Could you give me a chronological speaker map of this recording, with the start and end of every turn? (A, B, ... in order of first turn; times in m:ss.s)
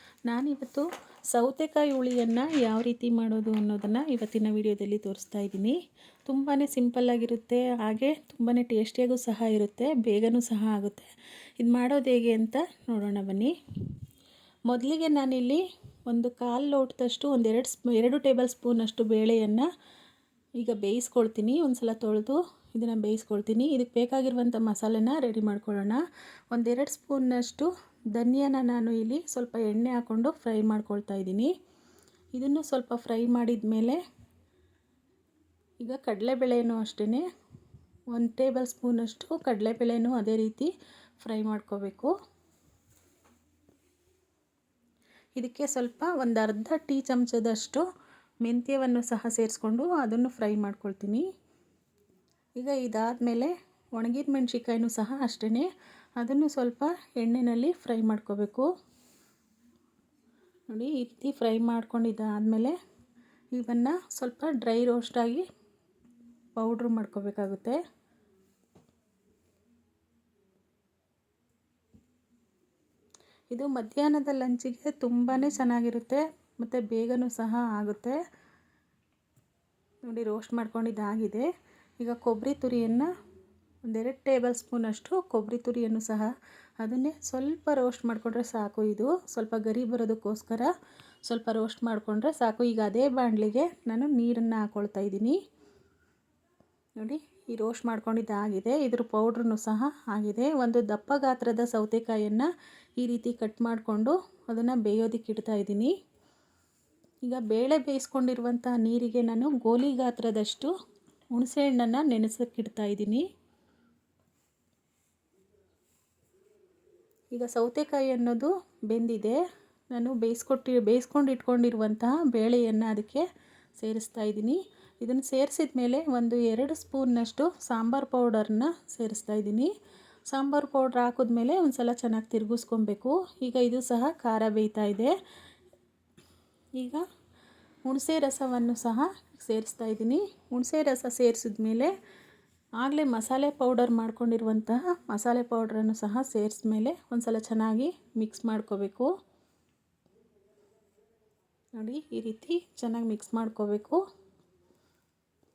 0:00.3-0:11.1 A
0:11.6-0:13.5 A
0:14.7-0:19.7 A
0:20.6-0:31.5 A
0:32.3-0:34.0 A
0:35.8-0:37.2 A
0:38.1-0:42.1 A
0:45.4-0:47.8 A
0:48.4-0:51.2 A
0:52.6-0:58.7 A
1:00.7-1:02.8 A
1:03.5-1:05.4 A
1:06.6-1:07.8 A
1:13.5-1:18.2 A
1:20.0-1:21.5 A
1:22.0-1:23.1 A
1:23.9-1:30.7 A
1:31.2-1:35.4 A
1:37.0-1:42.5 A
1:43.0-1:45.9 A
1:47.2-1:50.7 A
1:51.3-1:53.3 A
1:57.3-2:03.2 A
2:03.8-2:09.7 A
2:10.3-2:15.1 A
2:16.8-2:17.0 A
2:17.8-2:21.9 A
2:22.8-2:29.1 A
2:31.8-2:34.0 A